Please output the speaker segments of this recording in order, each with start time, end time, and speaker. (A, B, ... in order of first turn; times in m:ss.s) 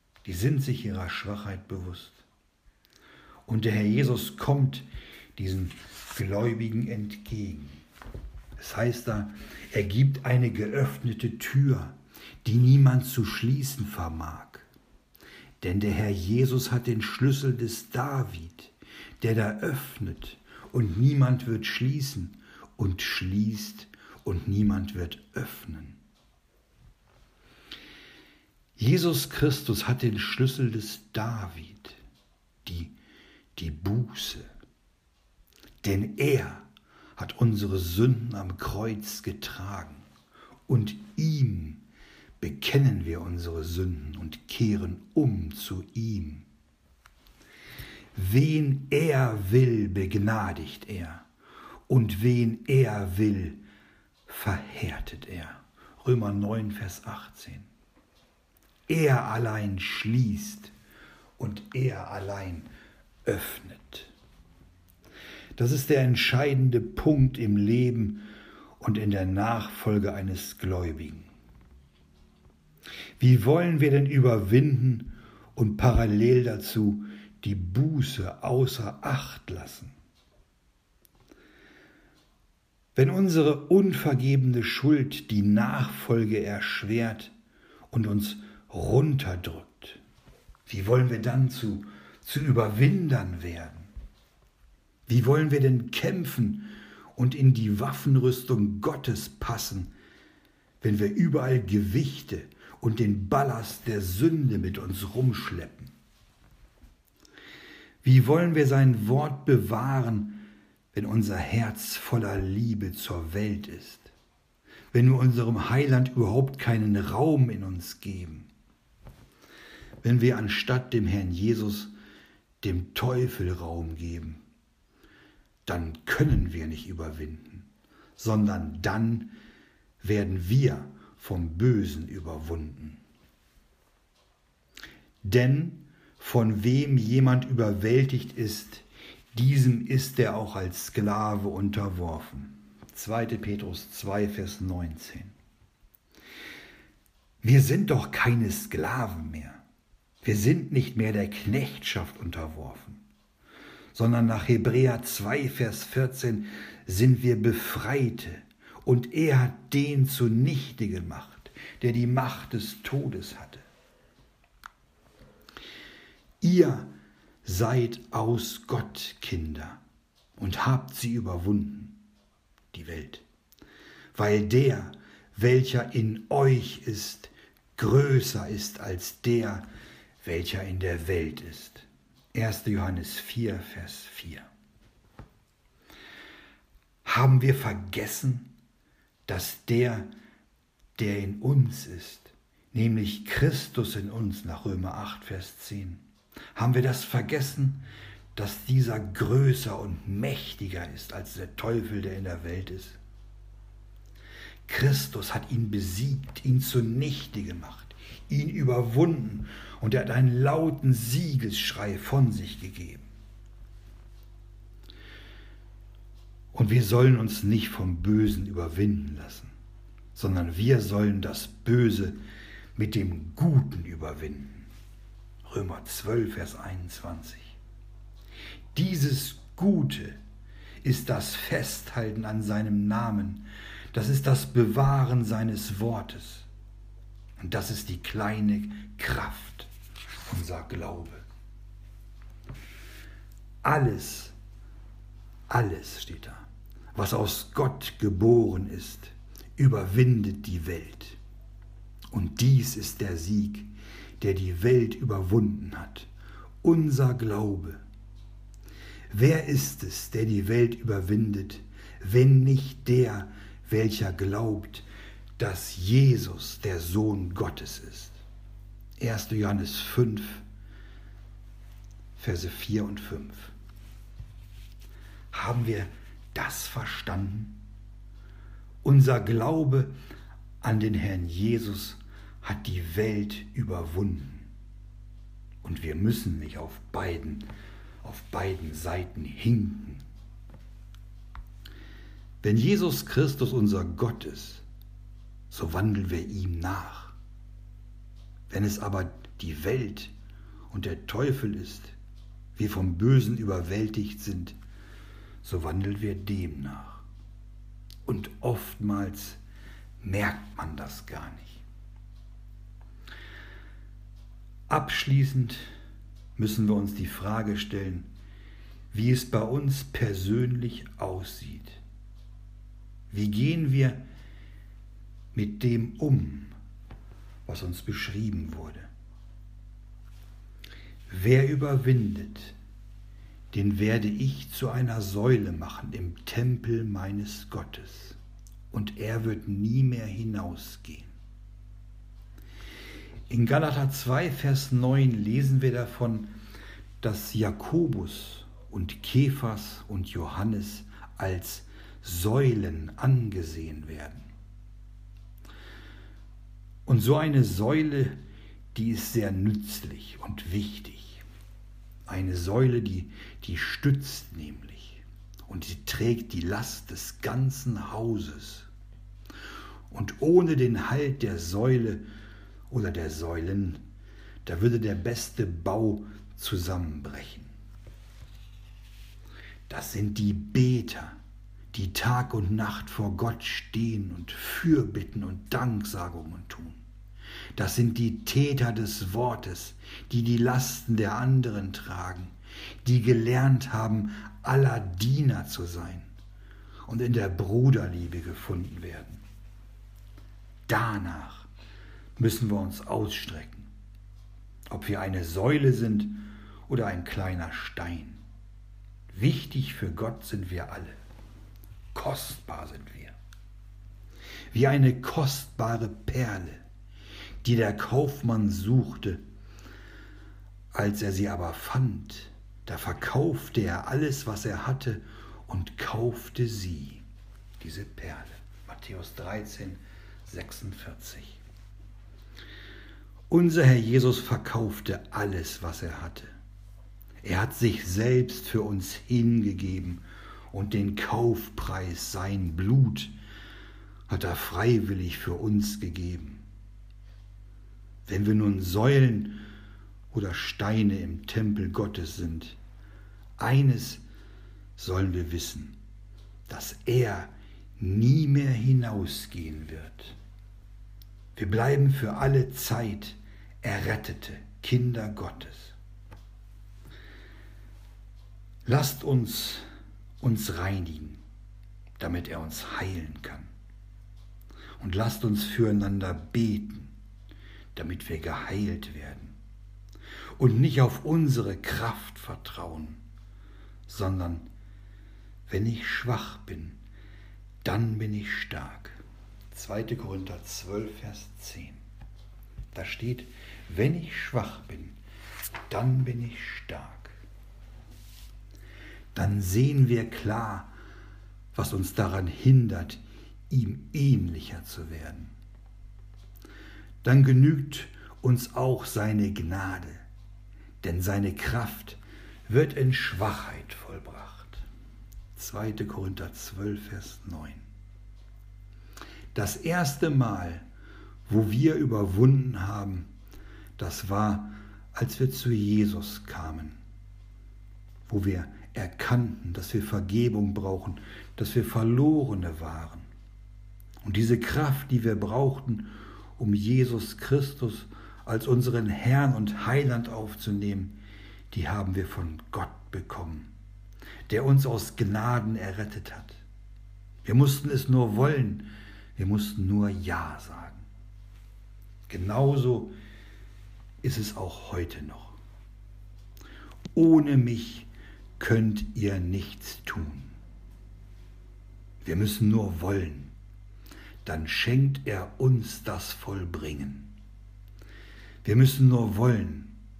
0:00.2-0:02.2 A
0:03.4-0:07.8 A
0:08.6-0:14.7 A
0:15.6-0:26.0 A
0:28.8-0:32.0 A
0:32.6-0:33.0 A
0:33.6-0:34.5 A
0:35.8-0:40.0 A
0:40.7-0:41.8 A
0:42.4-0:46.4 A
0:48.1-0:51.3 A
0:51.9-0:53.6 A
0:54.3-0:57.7 A
0:58.9-1:00.7 A
1:01.4-1:02.7 A
1:03.2-1:04.1 A
1:05.6-1:08.3 A
1:08.8-1:11.3 A
1:13.2-1:19.9 A
1:22.9-1:27.3 A
1:27.9-1:30.0 A
1:30.7-1:33.9 A
1:35.1-1:39.9 A
1:40.8-1:45.9 A
1:48.0-1:54.1 A
1:54.9-1:58.5 A
2:00.0-2:01.9 A
2:02.6-2:04.4 A
2:05.6-2:09.3 A
2:10.0-2:13.0 A
2:15.2-2:25.3 A
2:27.4-2:29.6 A
2:30.2-2:33.0 A
2:33.9-2:43.6 A
2:46.4-2:46.9 A
2:47.4-2:49.8 A
2:50.4-2:52.0 A
2:52.7-2:53.2 A
2:54.1-2:59.7 A
3:00.2-3:04.5 A
3:07.0-3:08.5 A
3:09.3-3:10.1 A
3:11.0-3:16.0 A
3:16.5-3:17.8 A
3:18.4-3:23.0 A
3:24.7-3:33.1 A
3:36.5-3:39.5 A
3:40.1-3:42.2 A
3:42.8-3:44.7 A
3:45.4-3:47.6 A
3:48.7-3:50.2 A
3:50.8-3:56.5 A
3:57.4-3:59.7 A
4:00.2-4:01.2 A
4:03.6-4:04.3 A
4:05.5-4:11.2 A
4:12.1-4:16.1 A
4:16.6-4:17.8 A
4:19.1-4:24.8 A
4:25.4-4:28.2 A
4:29.0-4:30.4 A
4:32.2-4:33.5 A
4:35.3-4:37.6 A
4:38.8-4:39.9 A
4:40.6-4:44.5 A
4:45.6-4:47.5 A
4:48.0-4:50.0 A
4:52.4-4:54.6 A
4:55.5-4:57.2 A
4:58.5-5:00.1 A
5:00.7-5:01.9 A
5:02.6-5:04.6 A
5:05.4-5:07.0 A
5:08.0-5:09.4 A
5:10.0-5:11.6 A
5:14.7-5:15.7 A
5:16.4-5:18.1 A
5:18.9-5:21.8 A
5:23.1-5:24.0 A
5:25.3-5:26.6 A
5:27.4-5:28.9 A
5:31.1-5:32.6 A
5:33.5-5:38.2 A
5:38.7-5:41.1 A
5:43.3-5:46.3 A
5:47.0-5:54.3 A
5:56.9-5:58.2 A
5:58.7-6:01.2 A
6:02.1-6:08.7 A
6:09.9-6:12.0 A
6:12.7-6:13.8 A
6:14.4-6:17.5 A
6:19.7-6:21.2 A
6:21.7-6:26.8 A
6:27.6-6:36.1 A
6:36.9-6:39.2 A
6:40.7-6:41.5 A
6:42.2-6:43.7 A
6:44.7-6:48.2 A
6:49.1-6:51.0 A
6:51.9-6:53.2 A
6:54.5-6:56.6 A
6:57.4-6:59.2 A
7:00.7-7:07.0 A
7:07.6-7:11.4 A
7:13.3-7:16.3 A
7:17.2-7:23.1 A
7:24.1-7:26.4 A
7:28.1-7:29.4 A
7:30.1-7:32.6 A
7:33.4-7:34.0 A
7:34.8-7:35.8 A
7:36.5-7:40.2 A
7:41.4-7:45.8 A
7:48.6-7:49.6 A
7:50.2-7:51.2 A
7:52.0-7:53.5 A
7:54.8-7:56.9 A
7:57.7-7:59.4 A
8:00.4-8:03.0 A
8:03.9-8:04.5 A
8:05.5-8:06.8 A
8:07.6-8:09.0 A
8:09.5-8:11.8 A
8:12.7-8:15.0 A
8:15.7-8:17.1 A
8:19.1-8:20.7 A
8:21.5-8:25.3 A
8:27.0-8:30.0 A
8:30.8-8:34.6 A
8:35.4-8:37.6 A
8:39.3-8:40.6 A
8:41.3-8:43.1 A
8:43.8-8:46.8 A
8:48.1-8:53.1 A
8:54.0-9:01.0 A
9:01.5-9:03.5 A
9:04.3-9:06.4 A
9:07.2-9:10.9 A
9:12.1-9:12.9 A
9:14.0-9:15.4 A
9:16.9-9:20.4 A
9:22.0-9:23.3 A
9:24.2-9:27.2 A
9:28.4-9:29.8 A